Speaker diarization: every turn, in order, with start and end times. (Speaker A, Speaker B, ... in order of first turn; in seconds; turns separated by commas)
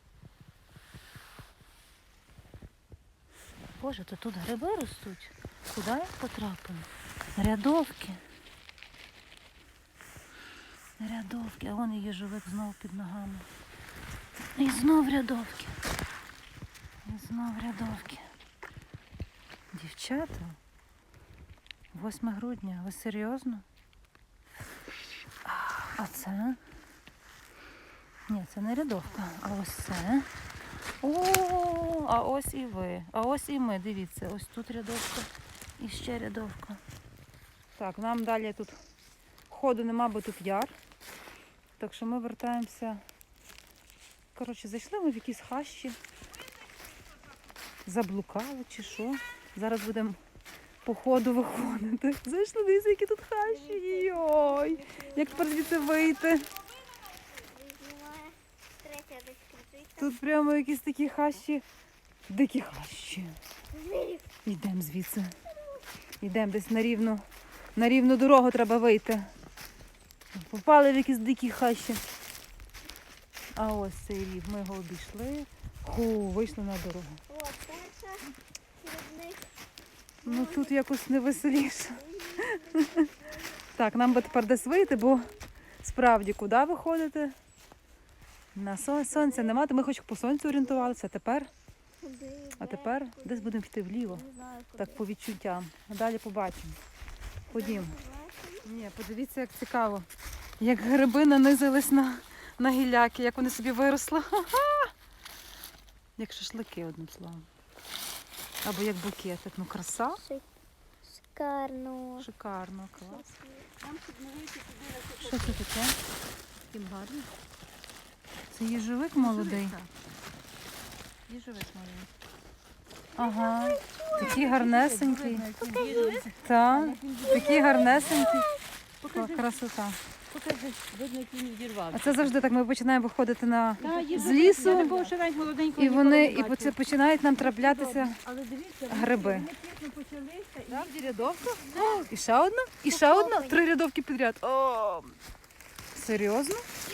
Speaker A: 3.8-8.2, Speaker A: 11.0-13.5, Speaker A: 14.6-15.8, Speaker A: 17.1-18.3, Speaker A: 19.7-20.6, Speaker A: 21.9-23.6, Speaker A: 25.4-26.6, Speaker A: 28.3-30.3, Speaker A: 31.0-36.8, Speaker A: 37.8-38.8, Speaker A: 39.5-40.8, Speaker A: 41.8-43.0, Speaker A: 44.4-46.0, Speaker A: 47.9-50.2, Speaker A: 50.8-56.6, Speaker B: 53.6-55.8, Speaker B: 56.6-60.1, Speaker A: 60.0-61.6, Speaker A: 62.3-63.4, Speaker B: 63.7-64.3, Speaker A: 64.4-65.4, Speaker A: 66.2-67.2, Speaker A: 67.8-69.3, Speaker A: 70.3-72.0, Speaker A: 73.5-77.2, Speaker B: 77.3-79.5, Speaker A: 80.2-87.4, Speaker B: 80.3-80.7, Speaker B: 82.1-83.5, Speaker B: 84.4-85.2, Speaker A: 88.5-91.5, Speaker B: 92.0-93.5, Speaker A: 92.6-96.8, Speaker B: 94.1-94.8, Speaker A: 97.5-98.0, Speaker B: 97.5-98.7, Speaker A: 98.6-100.1, Speaker A: 100.6-104.9, Speaker A: 106.2-107.5, Speaker A: 108.6-110.3, Speaker B: 111.0-112.3, Speaker A: 112.2-113.3, Speaker B: 113.1-113.7, Speaker C: 113.8-115.6, Speaker A: 115.2-116.0, Speaker C: 116.7-117.3, Speaker A: 118.5-119.8, Speaker C: 119.2-119.9, Speaker C: 121.3-122.1, Speaker A: 123.1-128.5, Speaker B: 123.2-124.2, Speaker C: 124.1-128.4, Speaker B: 127.6-128.5, Speaker C: 129.0-129.5, Speaker A: 129.1-130.0, Speaker C: 130.3-132.4, Speaker A: 131.9-135.1, Speaker C: 133.8-136.8, Speaker A: 135.8-138.2, Speaker C: 137.3-142.0, Speaker A: 138.9-139.5, Speaker A: 140.7-145.2, Speaker B: 142.9-143.6, Speaker A: 145.9-146.7